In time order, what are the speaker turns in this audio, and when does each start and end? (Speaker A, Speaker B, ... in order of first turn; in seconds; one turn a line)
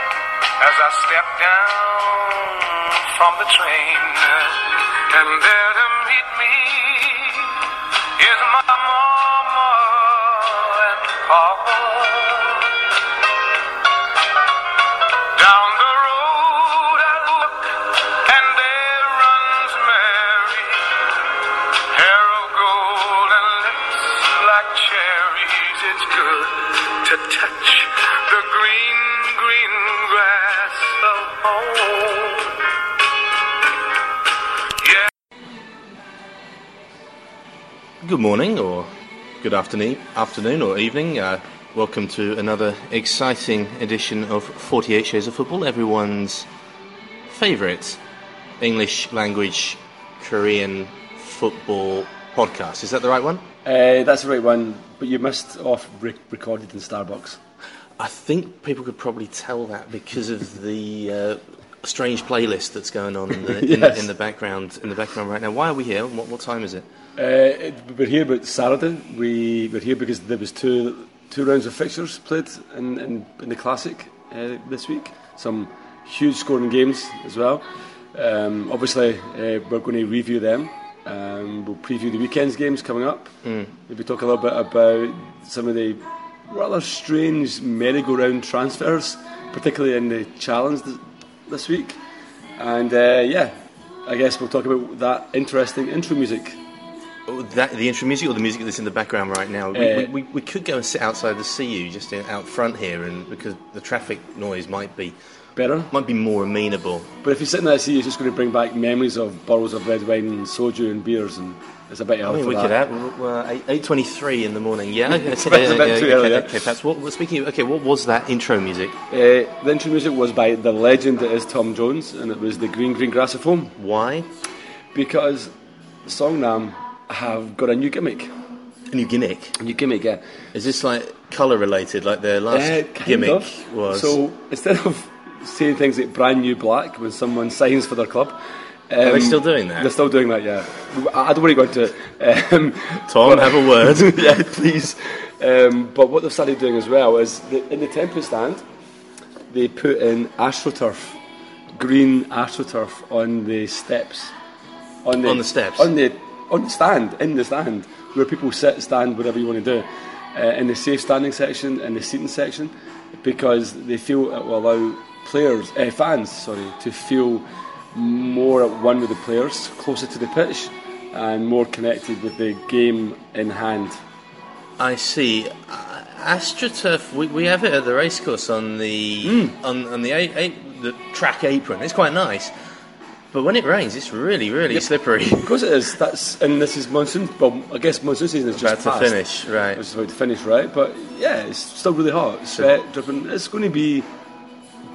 Speaker A: 0.6-12.8
Speaker A: 15.3-32.6
Speaker A: 34.8-35.0
Speaker B: 38.0-38.9
Speaker B: 39.4-46.5
Speaker B: 47.3-48.0
Speaker B: 48.6-53.4
Speaker C: 53.6-57.4
Speaker B: 58.0-66.8
Speaker C: 63.4-64.0
Speaker C: 67.2-77.6
Speaker C: 78.1-83.3
Speaker C: 83.9-92.0
Speaker C: 92.6-93.5
Speaker C: 94.1-96.6
Speaker B: 97.3-105.2
Speaker C: 99.7-100.1
Speaker C: 105.5-105.9
Speaker B: 105.9-107.1
Speaker C: 107.2-112.7
Speaker B: 112.2-118.9
Speaker C: 115.1-116.6
Speaker C: 119.1-123.7
Speaker B: 123.8-124.3
Speaker C: 124.9-125.5
Speaker C: 126.0-128.3
Speaker B: 128.9-129.6
Speaker C: 129.6-130.2
Speaker B: 130.5-134.2
Speaker C: 132.5-138.4
Speaker C: 138.9-148.6
Speaker B: 139.0-139.9
Speaker B: 143.1-144.4
Speaker C: 149.5-151.2
Speaker C: 151.7-154.3
Speaker C: 155.0-174.0
Speaker B: 155.2-155.9
Speaker B: 174.8-182.5
Speaker C: 179.2-179.5
Speaker B: 183.3-185.5
Speaker C: 185.4-189.2
Speaker B: 188.5-189.8
Speaker C: 189.7-194.1